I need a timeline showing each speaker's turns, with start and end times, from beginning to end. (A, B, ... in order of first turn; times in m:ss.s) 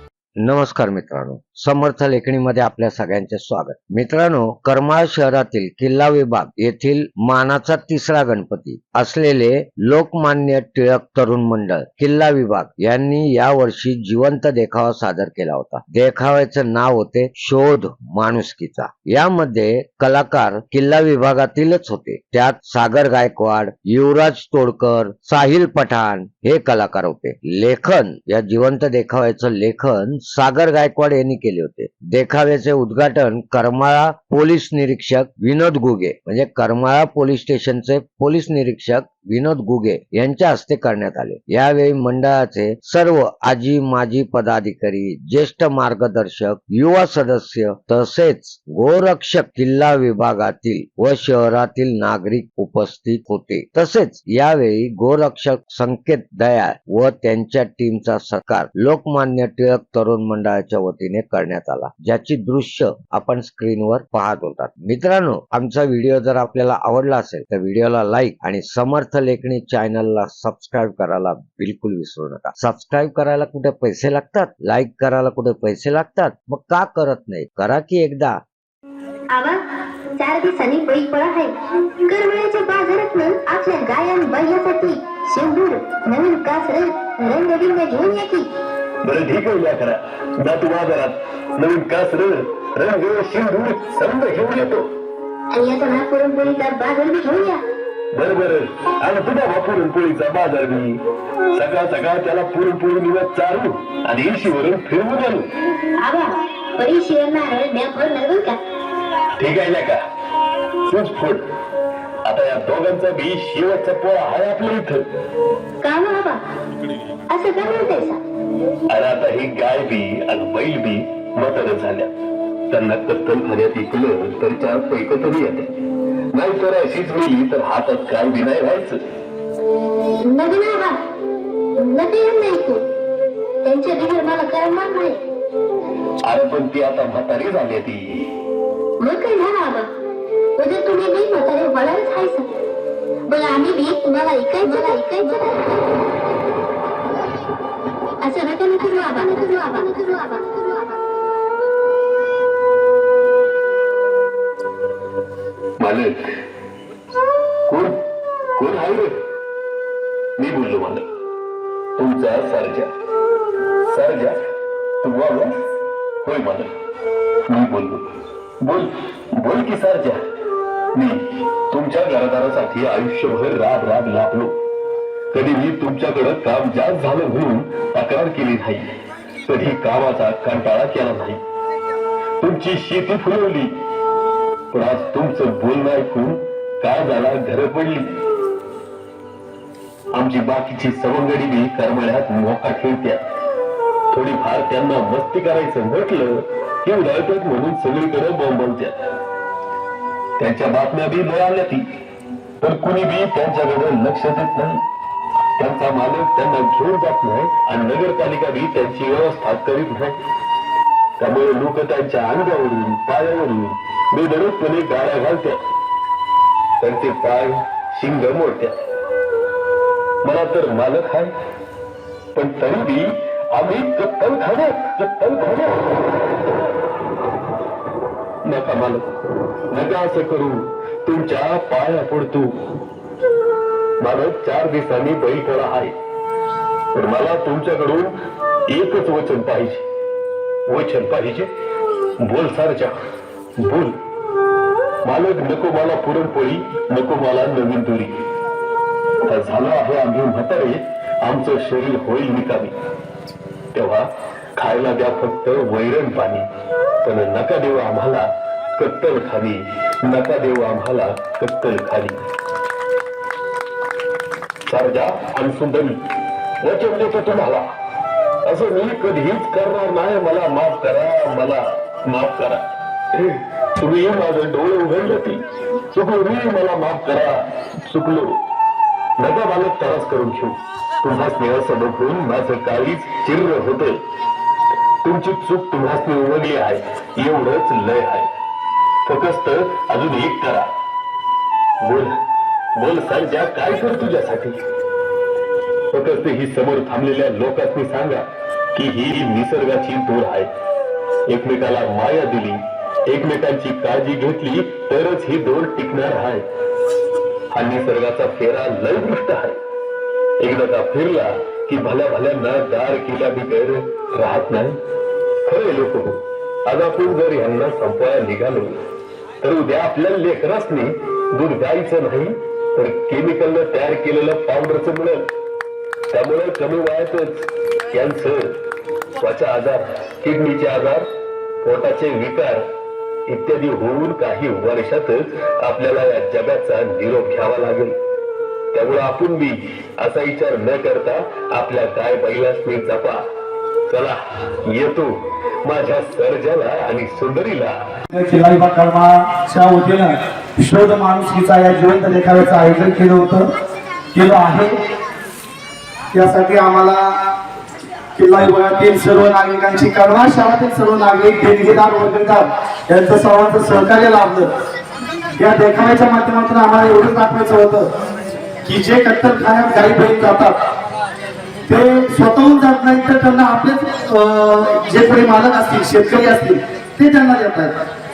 0:00.4-1:18.4 A
1:19.3-1:28.5 B
1:29.0-1:34.9 C
1:35.5-1:37.6 B
1:38.1-1:41.0 C
1:41.5-1:45.5 C
1:46.0-1:48.6 B
1:49.4-1:50.0 C
1:50.9-1:51.4 C
1:52.2-1:55.0 C
1:55.8-1:56.4 B
1:57.3-1:58.2 B
1:58.9-2:02.1 C
2:02.7-2:05.7 C
2:06.3-2:09.0 C
2:10.2-2:11.0 B
2:11.8-2:12.9 B
2:13.6-2:15.2 B
2:16.2-2:18.3 C
2:19.0-2:19.9 B
2:20.6-2:22.6 B
2:23.3-2:25.9 B
2:28.2-2:30.8 B
2:35.8-2:36.3 C
2:37.7-2:38.0 C
2:38.6-2:39.2 C
2:40.4-2:41.0 C
2:42.0-2:42.9 C
2:43.9-2:44.4 C
2:45.0-2:45.5 C
2:46.2-2:46.7 C
2:47.5-2:48.0 C
2:48.6-2:50.2 C
2:50.9-2:54.5 C
2:55.3-2:58.9 C
2:59.4-3:01.4 C
3:02.4-3:03.7 C
3:04.7-3:08.2 C
3:10.2-3:13.2 C
3:14.1-3:19.0 C
3:20.4-3:21.8 C
3:22.6-3:24.8 C
3:25.6-3:30.2 C
3:31.2-3:35.6 C
3:36.8-3:38.7 C
3:40.2-3:41.3 C
3:42.3-3:46.0 C
3:48.5-3:49.0 C
3:49.7-3:52.6 C
3:54.0-3:55.9 C
3:56.9-3:58.1 C
3:58.7-3:59.8 C
4:00.7-4:01.5 C
4:02.3-4:02.9 C
4:03.6-4:03.9 C
4:05.0-4:08.2 C
4:09.2-4:12.7 C
4:13.7-4:16.4 C
4:17.0-4:22.2 C
4:24.7-4:26.0 C
4:26.6-4:27.6 C
4:28.4-4:38.4 C
4:39.2-4:43.9 C
4:45.0-4:48.3 C
4:49.0-4:50.7 C
4:51.8-4:52.1 C
4:52.8-4:54.6 C
4:55.9-4:58.2 C
4:58.7-5:00.5 C
5:01.3-5:06.4 C
5:07.5-5:09.6 C
5:10.4-5:14.8 C
5:15.4-5:18.8 C
5:19.4-5:25.3 C
5:26.1-5:28.5 C
5:29.2-5:31.1 C
5:31.6-5:32.6 C
5:33.3-5:38.0 C
5:38.7-5:43.2 C
5:43.9-5:45.1 C
5:45.6-5:47.8 C
5:48.1-5:53.5 D
5:54.1-5:54.7 D
5:56.1-5:57.2 D
5:58.2-6:04.5 D
6:05.4-6:07.9 D
6:08.6-6:10.5 D
6:11.7-6:17.7 D